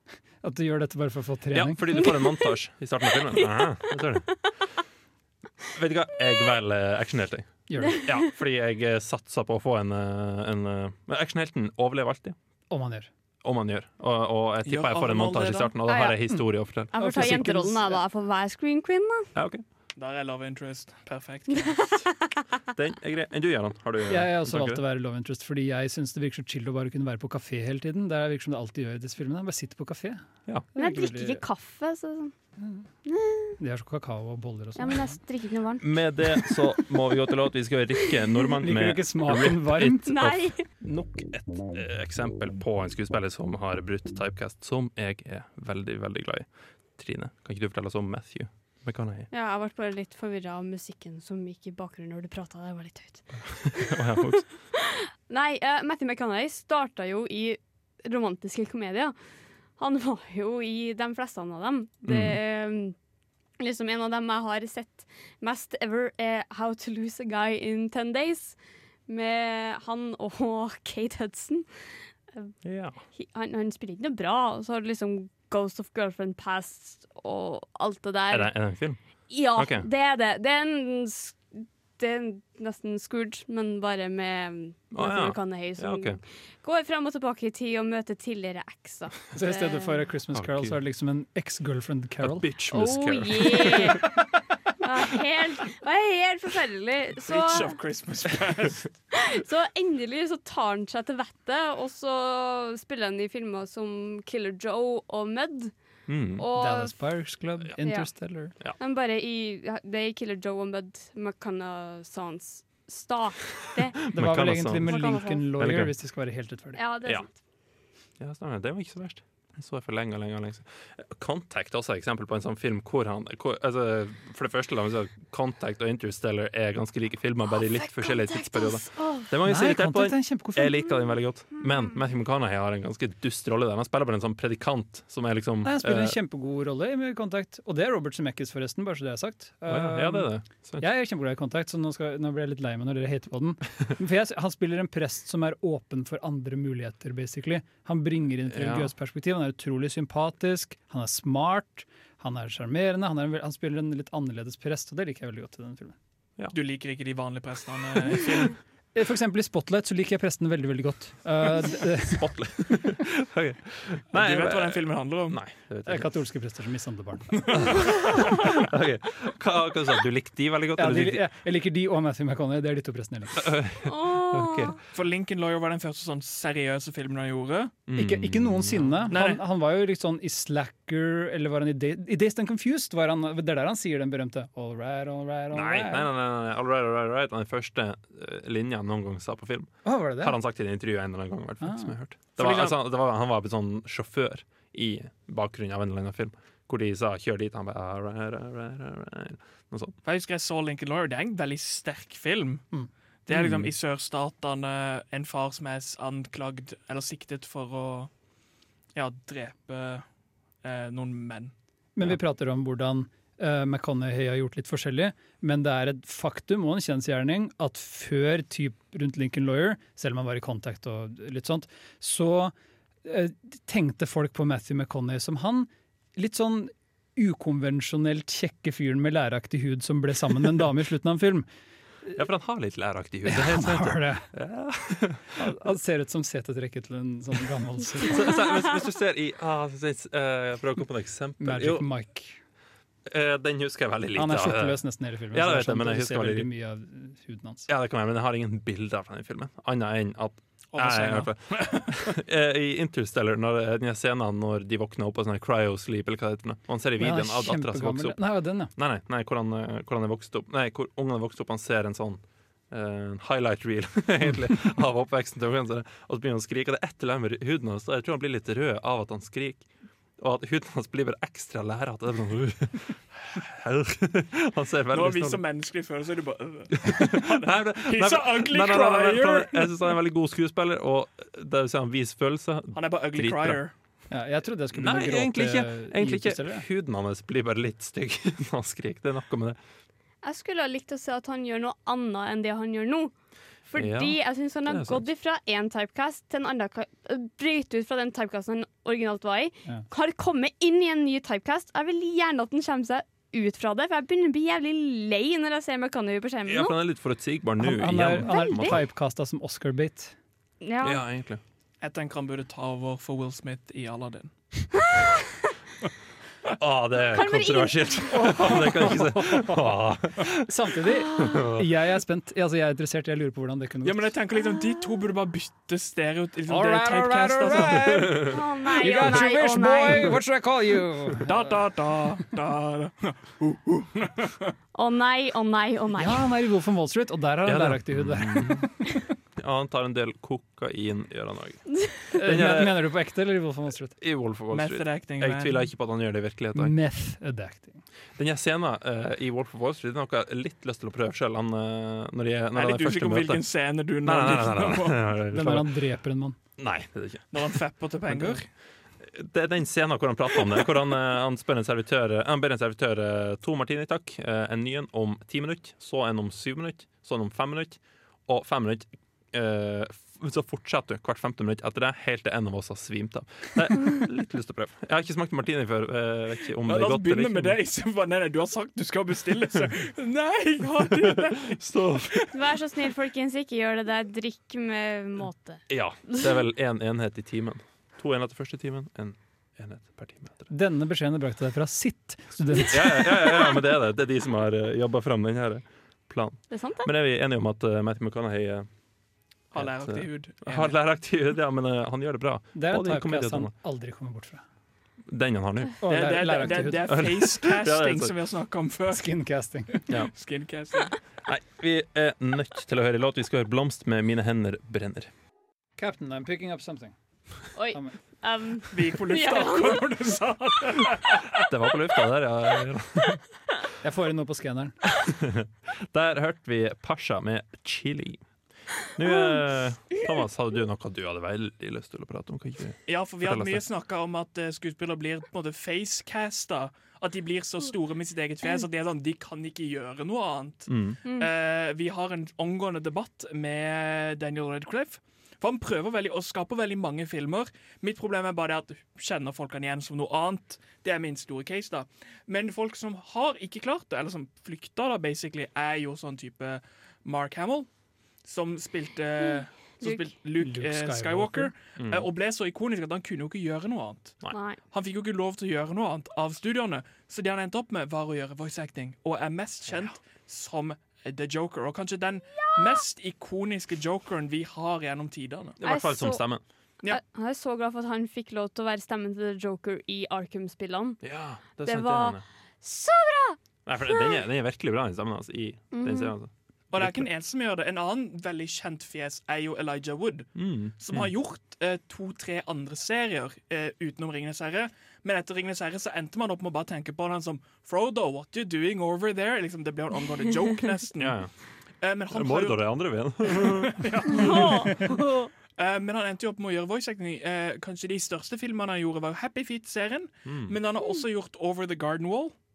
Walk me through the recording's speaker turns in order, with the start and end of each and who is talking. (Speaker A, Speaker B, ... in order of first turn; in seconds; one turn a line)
Speaker A: 0.4-1.9
Speaker B: 1.5-4.6
Speaker C: 3.4-3.9
Speaker B: 5.7-12.3
Speaker A: 7.7-8.1
Speaker A: 12.7-13.1
Speaker B: 13.4-17.3
Speaker D: 14.6-15.7
Speaker C: 15.9-19.3
Speaker A: 16.9-18.0
Speaker B: 19.3-19.6
Speaker D: 19.9-22.0
Speaker B: 22.7-24.8
Speaker A: 24.1-30.2
Speaker A: 30.7-31.4
Speaker C: 30.7-32.3
Speaker C: 33.0-33.5
Speaker A: 33.6-35.1
Speaker C: 34.8-35.8
Speaker B: 35.8-49.3
Speaker A: 38.6-40.1
Speaker C: 40.0-40.6
Speaker C: 49.3-53.9
Speaker B: 53.3-54.6
Speaker C: 55.3-59.1
Speaker C: 59.8-62.9
Speaker B: 62.0-62.4
Speaker C: 63.6-72.6
Speaker B: 72.6-73.0
Speaker C: 73.1-78.5
Speaker B: 78.3-79.0
Speaker C: 79.3-90.0
Speaker B: 79.5-79.9
Speaker B: 84.9-86.2
Speaker A: 89.3-92.5
Speaker B: 90.3-90.8
Speaker B: 92.2-94.0
Speaker C: 92.7-94.0
Speaker C: 94.8-97.7
Speaker D: 97.2-98.9
Speaker C: 99.1-107.0
Speaker B: 106.1-106.4
Speaker A: 106.5-108.5
Speaker C: 107.8-114.0
Speaker B: 114.1-115.9
Speaker A: 114.1-116.8
Speaker C: 114.8-115.5
Speaker C: 116.7-117.3
Speaker B: 118.2-136.2
Speaker C: 127.5-129.3
Speaker A: 129.4-130.8
Speaker A: 135.6-155.9
Speaker B: 139.7-140.8
Speaker B: 148.5-148.9
Speaker D: 156.5-158.6
Speaker A: 158.9-162.3
Speaker B: 162.1-166.2
Speaker D: 164.1-165.4
Speaker A: 165.8-167.8
Speaker B: 168.2-171.2
Speaker A: 170.8-173.5
Speaker B: 173.4-174.8
Speaker C: 173.9-174.8
Speaker D: 174.9-177.8
Speaker B: 177.9-179.1
Speaker A: 177.9-186.1
Speaker D: 179.1-179.4
Speaker B: 185.5-199.9
Speaker A: 189.8-190.3
Speaker A: 191.6-191.9
Speaker D: 192.4-192.7
Speaker D: 200.0-202.7
Speaker D: 203.3-208.1
Speaker B: 203.3-203.7
Speaker D: 208.9-210.1
Speaker D: 210.6-211.5
Speaker A: 211.9-231.5
Speaker B: 232.1-235.4
Speaker A: 233.2-234.2
Speaker A: 235.4-238.3
Speaker B: 238.0-241.9
Speaker A: 241.4-242.4
Speaker B: 243.1-246.5
Speaker A: 244.1-247.7
Speaker B: 247.7-275.4
Speaker D: 250.7-252.0
Speaker A: 257.0-258.7
Speaker D: 274.9-279.8
Speaker B: 276.9-283.6
Speaker D: 282.7-283.7
Speaker A: 284.1-286.6
Speaker B: 284.7-289.6
Speaker C: 290.2-293.1
Speaker C: 293.6-306.8
Speaker B: 293.7-295.0
Speaker B: 306.5-308.8
Speaker A: 307.6-310.1
Speaker C: 308.2-308.8
Speaker C: 310.6-311.0
Speaker B: 310.8-311.4
Speaker D: 311.8-314.9
Speaker B: 316.6-320.5
Speaker C: 317.1-318.3
Speaker A: 318.1-319.7
Speaker A: 320.4-324.2
Speaker C: 321.1-321.4
Speaker B: 321.2-321.7
Speaker D: 323.8-328.3
Speaker A: 326.4-331.5
Speaker C: 328.2-330.2
Speaker D: 331.2-334.5
Speaker C: 334.7-336.2
Speaker A: 336.0-339.0
Speaker B: 337.4-338.7
Speaker B: 339.4-342.9
Speaker A: 342.1-343.9
Speaker B: 344.0-346.7
Speaker D: 344.5-345.7
Speaker A: 346.5-347.8
Speaker B: 348.2-353.4
Speaker D: 352.5-355.0
Speaker B: 354.0-355.8
Speaker A: 355.3-356.4
Speaker B: 356.6-358.4
Speaker D: 357.3-358.4
Speaker B: 359.0-377.6
Speaker D: 376.7-382.2
Speaker B: 381.6-382.1
Speaker C: 382.3-385.6
Speaker B: 385.7-390.5
Speaker A: 390.5-393.4
Speaker B: 392.7-398.7
Speaker C: 396.5-396.9
Speaker D: 399.5-400.7
Speaker B: 399.5-403.5
Speaker A: 402.5-404.4
Speaker B: 405.1-405.9
Speaker A: 405.8-407.1
Speaker D: 405.8-409.1
Speaker B: 406.6-408.1
Speaker A: 408.9-409.8
Speaker D: 409.7-411.0
Speaker B: 411.2-415.1
Speaker A: 415.8-418.0
Speaker C: 417.5-419.8
Speaker D: 418.7-421.4
Speaker B: 421.5-423.2
Speaker A: 423.8-424.8
Speaker B: 425.2-428.2
Speaker B: 428.8-433.6
Speaker D: 432.9-457.7
Speaker B: 440.7-441.0
Speaker C: 441.0-441.3
Speaker D: 458.2-475.6
Speaker C: 459.8-460.1
Speaker A: 460.4-461.5
Speaker B: 461.8-462.1
Speaker C: 464.3-464.6
Speaker B: 475.6-476.4
Speaker C: 475.6-476.2
Speaker C: 476.9-481.0
Speaker B: 481.0-482.2
Speaker C: 481.6-483.4
Speaker B: 483.6-487.1
Speaker C: 483.9-484.2
Speaker C: 485.7-486.1
Speaker D: 486.7-501.2
Speaker B: 490.4-491.1
Speaker B: 501.0-501.3
Speaker D: 501.8-504.9
Speaker B: 502.1-503.7
Speaker C: 504.1-505.3
Speaker D: 505.6-512.3
Speaker B: 510.2-510.6